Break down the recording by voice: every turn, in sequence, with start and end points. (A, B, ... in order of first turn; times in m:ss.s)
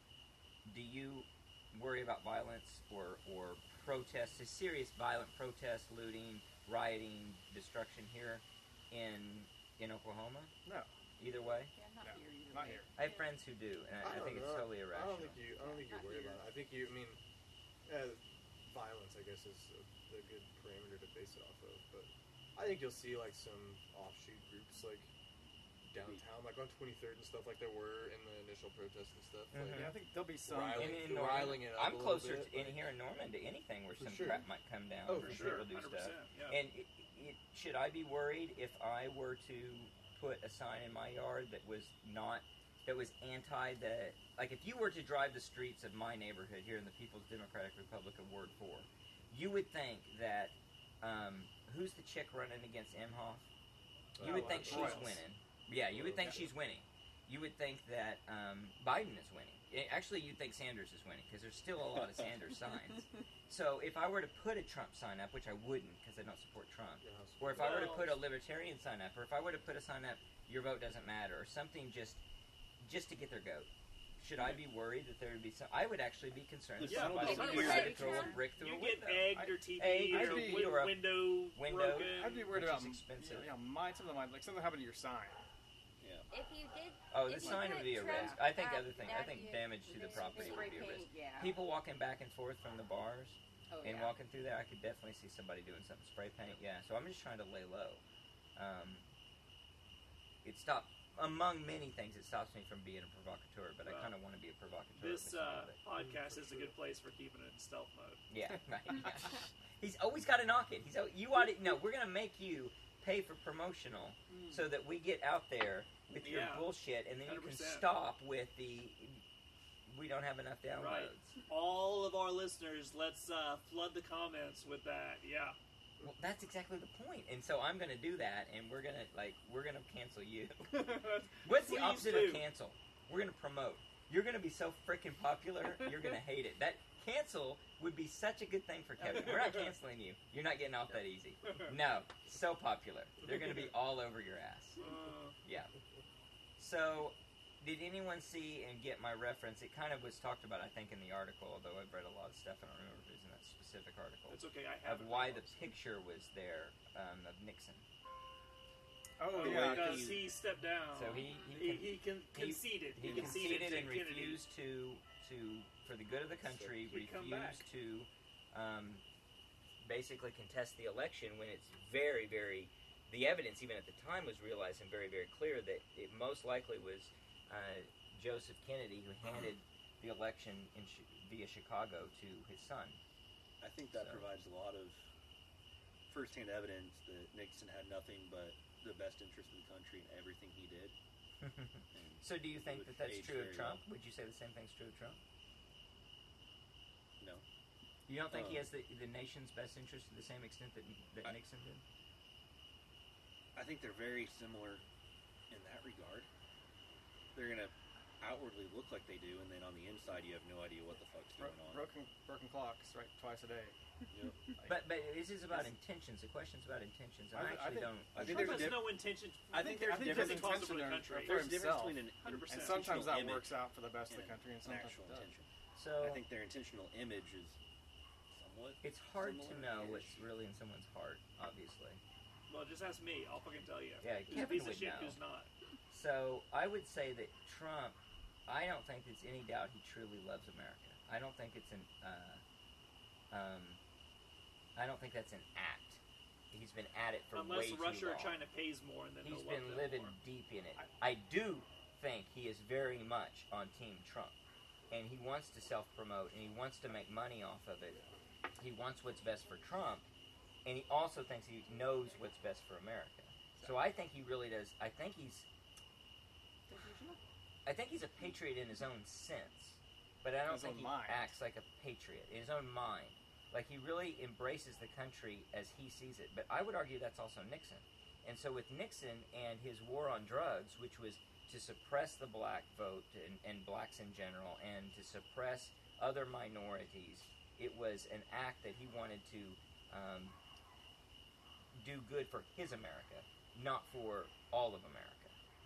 0:00.6-0:10.5 A
0:11.2-0:11.7 A
0:11.7-0:13.2 B
0:12.0-0:12.9 C
0:13.0-0:15.4 A
0:14.0-0:17.2 D
0:15.5-0:16.4 B
0:17.9-0:25.1 D
0:25.8-0:32.9 D
0:29.5-0:30.0 A
0:29.7-0:31.1 C
0:30.7-0:53.5 A
0:34.0-0:34.4 D
0:35.1-0:35.7 D
0:35.2-0:36.6 E
0:54.2-0:55.2 D
0:54.2-1:12.2 A
0:54.2-0:55.2 C
0:55.9-0:56.5 D
1:07.0-1:08.2 D
1:07.6-1:08.1 E
1:12.8-1:23.5 A
1:16.8-1:18.1 F
1:16.9-1:22.5 E
1:17.0-1:18.4 G
1:20.1-1:20.8 C
1:22.0-1:25.4 C
1:26.0-1:26.3 F
1:26.3-1:31.0 G
1:27.1-1:38.0 A
1:27.7-1:28.4 B
1:29.8-1:31.6 B
1:33.7-1:34.2 B
1:38.6-1:39.0 A
1:40.4-1:45.8 A
1:43.8-1:44.1 E
1:45.0-1:48.2 E
1:46.0-1:46.8 D
1:48.3-1:59.2 A
1:54.3-1:54.7 E
1:56.2-1:57.9 E
1:59.9-2:01.3 A
2:00.8-2:05.6 E
2:06.0-2:24.8 A
2:10.7-2:12.4 E
2:19.0-2:19.7 E
2:21.4-2:21.7 E
2:24.8-2:25.4 E
2:25.4-2:25.7 A
2:26.6-2:37.8 A
2:34.3-2:35.6 E
2:39.2-2:40.1 C
2:39.3-2:44.4 E
2:39.4-2:40.3 F
2:40.9-2:49.0 A
2:43.0-2:43.8 F
2:46.8-2:47.6 E
2:49.8-3:03.0 A
3:03.6-3:05.0 F
3:03.9-3:04.3 A
3:06.1-3:11.0 F
3:11.4-3:15.2 A
3:11.9-3:13.8 F
3:18.1-3:21.8 A
3:18.3-3:18.7 F
3:23.6-3:24.8 F
3:25.5-3:26.3 F
3:27.4-3:31.9 F
3:31.4-3:33.8 C
3:34.1-3:34.4 F
3:34.6-3:34.9 C
3:34.6-3:38.7 A
3:37.3-3:38.7 C
3:38.1-3:39.0 F
3:38.2-3:41.6 E
3:39.5-3:45.3 C
3:39.6-3:43.5 F
3:42.2-3:43.1 E
3:44.1-3:47.6 F
3:45.8-3:46.2 A
3:48.3-3:50.3 F
3:48.8-3:52.0 A
3:52.5-3:55.5 E
3:54.0-3:55.2 A
3:55.9-4:02.4 A
4:03.3-4:03.8 A
4:04.8-4:08.4 A
4:07.3-4:10.2 E
4:09.2-4:14.4 A
4:14.9-4:18.0 A
4:18.6-4:20.1 A
4:20.6-4:25.5 A
4:26.7-4:27.2 B
4:27.7-4:50.4 A
4:30.5-4:31.3 C
4:51.7-4:55.4 A